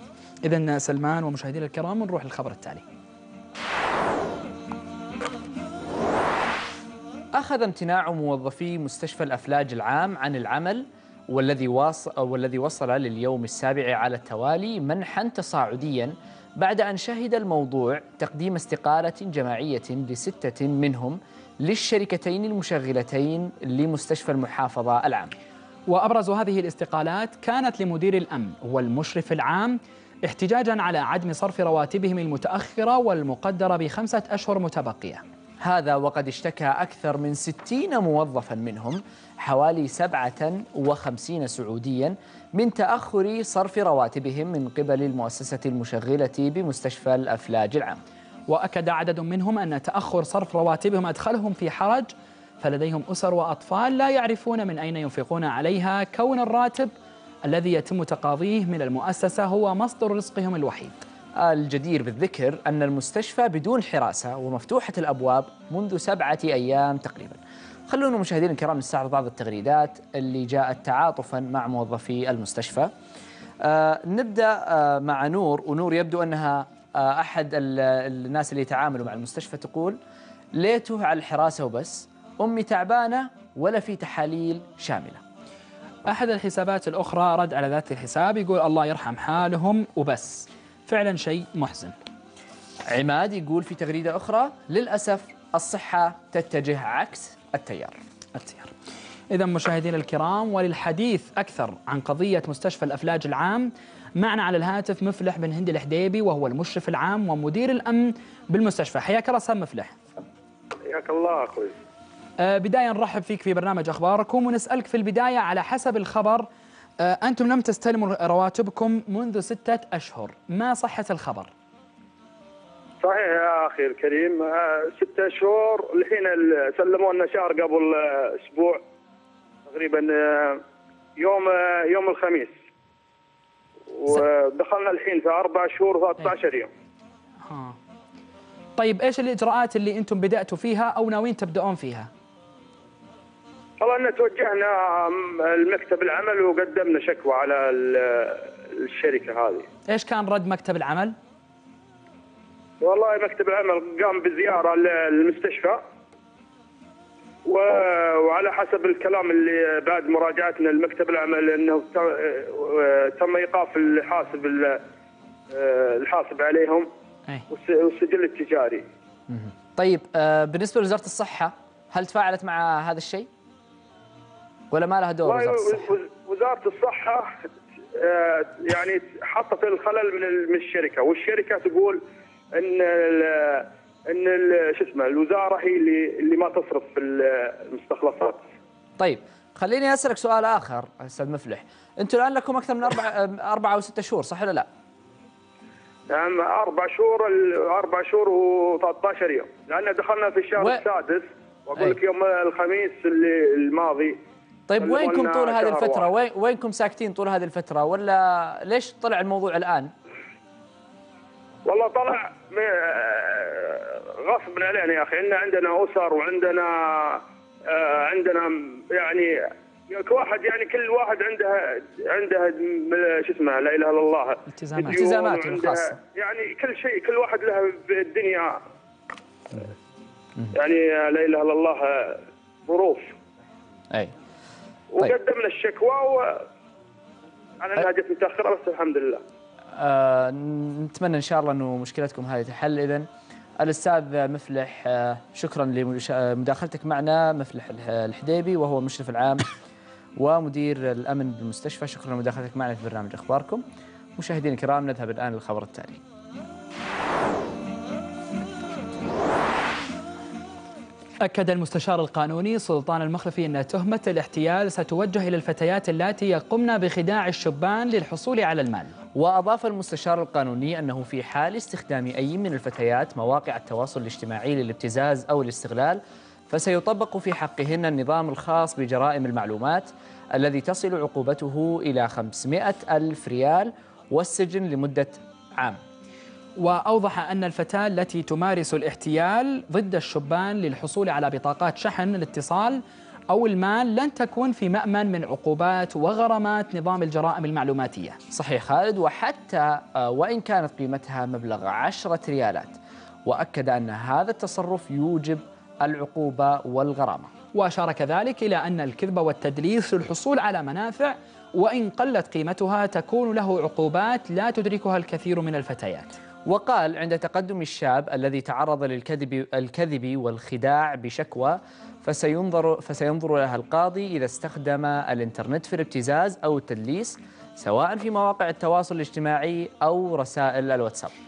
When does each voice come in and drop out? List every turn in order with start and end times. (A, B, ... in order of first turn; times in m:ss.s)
0:00.4-0:02.8 A
0:07.3-0:25.3 B
0:25.9-0:35.2 A
0:35.6-0:48.0 B
0:48.5-0:56.9 A
0:57.4-1:01.0 A
1:01.4-1:12.9 B
1:13.6-1:20.0 B
1:20.6-1:25.2 B
1:26.1-1:31.9 A
1:32.9-1:38.0 B
1:38.3-1:38.7 A
1:39.3-1:50.0 A
1:50.9-1:51.7 C
1:52.4-1:56.5 A
1:57.0-2:01.5 A
2:03.0-2:08.8 C
2:09.7-2:10.6 C
2:11.2-2:12.5 C
2:14.0-2:16.7 C
2:17.4-2:17.8 A
2:18.8-2:22.1 A
2:23.8-2:29.7 C
2:29.9-2:31.1 A
2:32.8-2:35.8 C
2:37.4-2:44.8 C
2:45.5-2:46.9 C
2:47.5-2:48.8 C
2:49.3-2:53.3 B
2:54.7-2:55.9 B
2:55.2-2:57.3 C
2:58.0-3:02.0 C
3:02.6-3:08.4 C
3:09.0-3:14.7 B
3:16.1-3:24.2 C
3:24.7-3:29.9 B
3:24.8-3:26.1 C
3:31.6-3:39.3 C
3:39.9-3:48.5 C
3:44.5-3:45.0 A
3:44.9-3:46.0 B
3:50.5-3:53.1 C
3:54.9-3:56.4 C
3:57.6-3:59.2 C
3:59.7-4:03.0 B
4:03.6-4:09.4 B
4:10.2-4:13.6 B
4:14.2-4:16.0 B
4:21.2-4:28.9 A
4:29.2-4:45.8 B
4:46.6-4:52.8 A
4:53.3-4:58.2 A
4:58.3-5:07.3 B
5:07.5-5:16.1 A
5:16.5-5:31.1 B